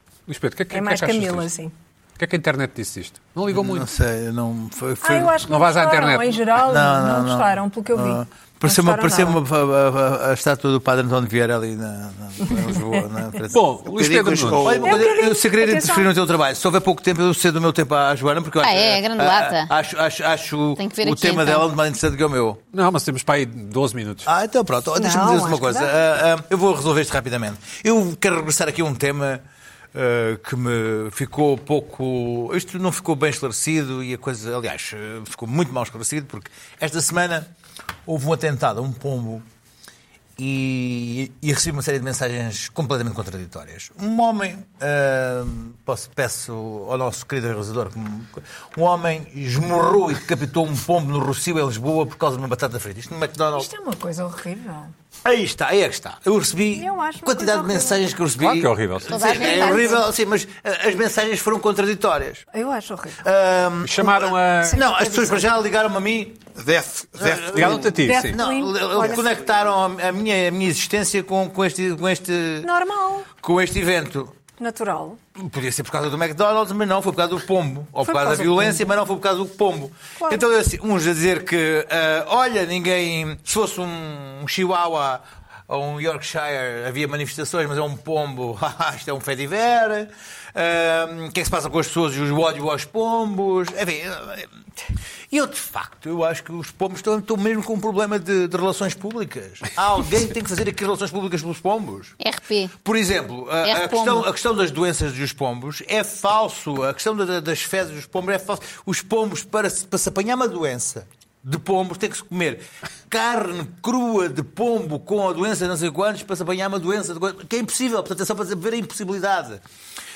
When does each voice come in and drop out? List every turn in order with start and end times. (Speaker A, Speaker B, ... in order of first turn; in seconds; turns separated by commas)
Speaker A: 0.3-1.5, Speaker B: 0.7-1.7, Speaker A: 2.2-3.9, Speaker C: 3.5-5.4, Speaker B: 5.0-9.4, Speaker A: 5.5-6.4, Speaker C: 6.6-13.6, Speaker A: 13.5-14.8, Speaker D: 13.9-15.0, Speaker C: 14.6-22.6, Speaker B: 14.8-16.1, Speaker E: 18.6-19.7, Speaker E: 20.8-21.7, Speaker A: 22.7-24.3, Speaker C: 24.3-37.5, Speaker B: 24.9-25.9, Speaker C: 38.1-39.5, Speaker C: 40.4-53.7, Speaker B: 53.5-54.9, Speaker C: 55.2-62.5, Speaker B: 56.7-58.1, Speaker A: 58.4-59.1, Speaker E: 59.1-60.0, Speaker B: 59.4-60.0, Speaker B: 62.5-63.2, Speaker C: 63.2-66.4, Speaker A: 63.8-64.8, Speaker B: 64.7-65.5, Speaker D: 66.6-68.0, Speaker C: 67.2-72.7, Speaker A: 67.5-68.4, Speaker B: 68.0-69.3, Speaker B: 72.6-73.3, Speaker C: 73.4-74.3, Speaker B: 74.6-75.2, Speaker C: 75.4-94.5, Speaker B: 78.0-78.9, Speaker C: 95.3-102.2, Speaker E: 102.2-102.8, Speaker C: 102.8-119.6, Speaker E: 103.6-104.3